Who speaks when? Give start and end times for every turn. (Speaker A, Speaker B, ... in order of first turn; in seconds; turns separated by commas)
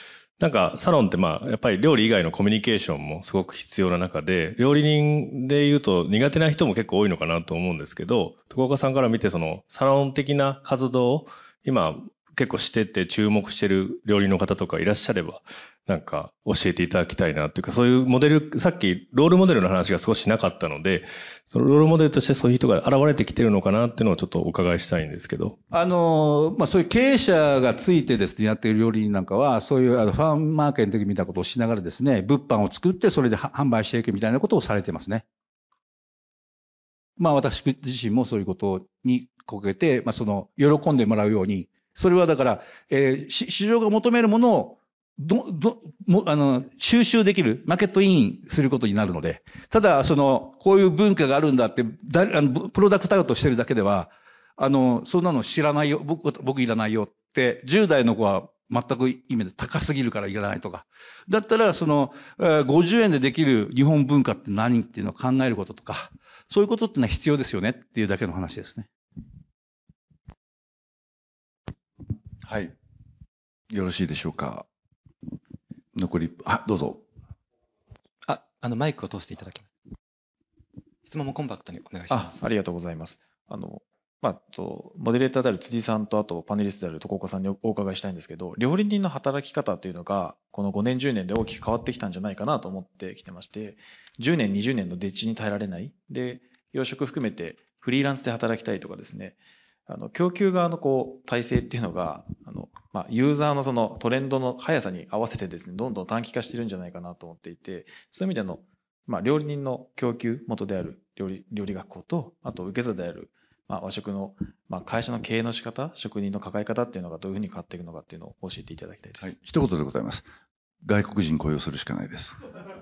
Speaker A: 0.4-25.6, Speaker B: 25.7-35.2, Speaker B: 37.2-68.9, Speaker C: 72.4-72.7, Speaker C: 73.7-74.7, Speaker C: 75.9-77.0, Speaker D: 78.2-79.7, Speaker D: 81.0-82.4, Speaker E: 82.1-119.3, Speaker C: 119.2-120.3, Speaker C: 120.8-122.4